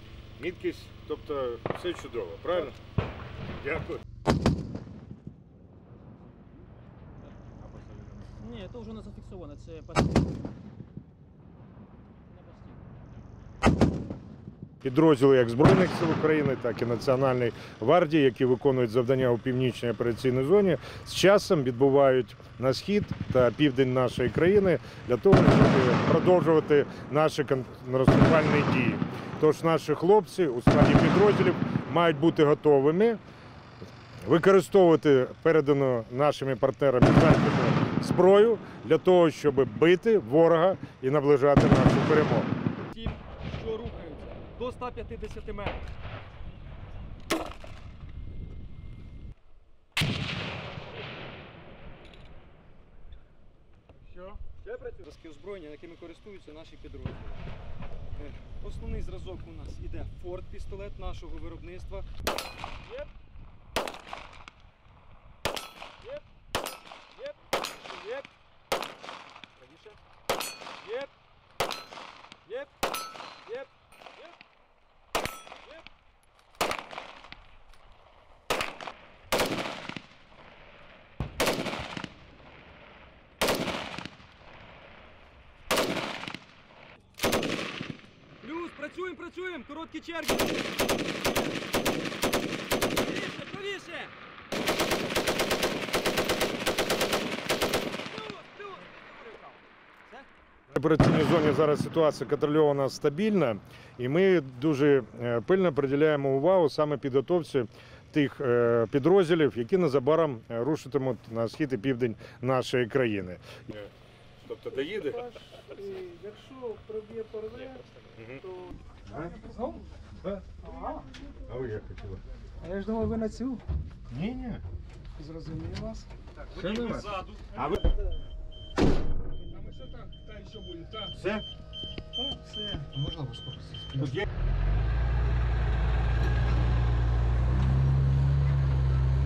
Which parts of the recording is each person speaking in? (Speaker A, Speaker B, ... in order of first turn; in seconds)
Speaker A: 0.4-2.8, 3.5-4.0, 14.8-33.2, 34.2-42.5, 100.7-115.3, 118.2-118.4, 119.1-119.5, 121.5-122.2, 124.1-124.6, 126.5-127.8, 131.1-131.4
Speaker B: 8.3-10.2, 12.4-12.7
Speaker C: 42.8-45.9, 54.4-57.4, 58.2-62.1, 67.2-68.3, 69.6-69.9, 70.8-71.1, 72.4-72.7, 88.4-90.6, 93.0-94.1, 98.0-100.3, 126.5-127.7, 129.8-131.1
Speaker D: 114.8-117.8, 118.4-118.7, 119.4-119.8, 120.6-121.5, 122.6-123.6, 125.2-126.1, 129.5-129.9, 132.2-134.1